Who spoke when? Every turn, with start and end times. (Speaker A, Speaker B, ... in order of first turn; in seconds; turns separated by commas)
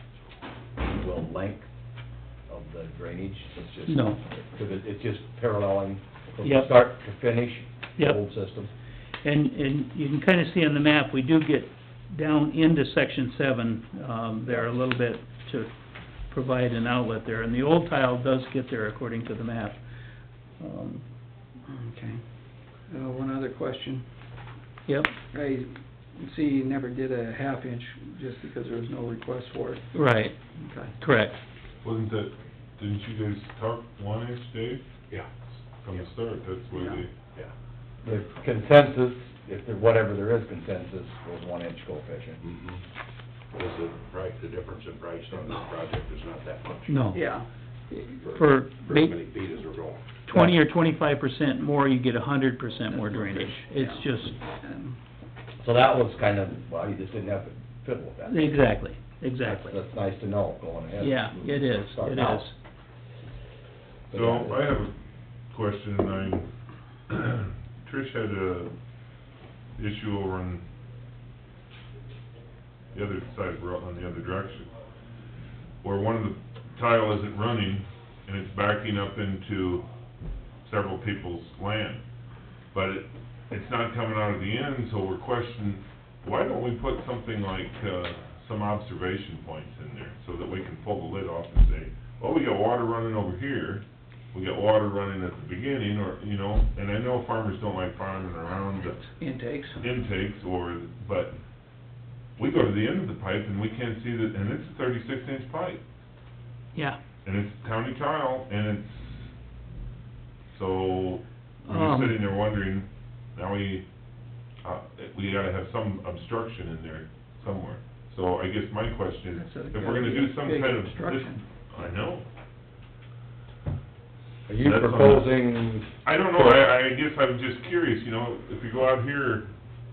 Speaker A: 0.8-1.7, Speaker A: 2.5-8.7, Speaker B: 3.9-4.2, Speaker B: 6.4-6.7, Speaker B: 9.2-15.7, Speaker B: 16.3-19.8, Speaker B: 20.6-21.0, Speaker C: 21.7-22.2, Speaker C: 22.9-24.0, Speaker B: 24.9-25.1, Speaker C: 25.3-29.9, Speaker B: 29.9-30.4, Speaker C: 30.5-30.9, Speaker B: 31.0-31.4, Speaker D: 31.8-34.8, Speaker D: 35.8-37.1, Speaker C: 36.7-37.0, Speaker A: 38.0-42.4, Speaker E: 42.4-42.8, Speaker E: 43.5-47.1, Speaker B: 46.9-47.2, Speaker C: 47.1-47.5, Speaker B: 47.9-49.1, Speaker E: 48.2-50.0, Speaker B: 50.3-54.4, Speaker C: 52.9-54.1, Speaker C: 54.6-55.0, Speaker A: 55.6-58.6, Speaker B: 58.3-59.7, Speaker A: 59.4-62.5, Speaker B: 61.0-62.5, Speaker A: 64.1-64.7, Speaker D: 64.1-64.9, Speaker D: 65.5-66.5, Speaker D: 67.1-68.7, Speaker D: 69.8-70.6, Speaker D: 72.9-74.7, Speaker D: 75.8-79.9, Speaker D: 80.6-82.0, Speaker D: 82.7-99.0, Speaker C: 99.2-99.8, Speaker D: 99.8-101.3, Speaker D: 102.4-105.8, Speaker D: 107.2-109.3, Speaker D: 110.5-113.8, Speaker B: 111.7-112.2, Speaker D: 114.6-122.2, Speaker C: 119.3-121.4, Speaker A: 124.5-126.7, Speaker D: 124.6-125.3, Speaker D: 126.0-129.5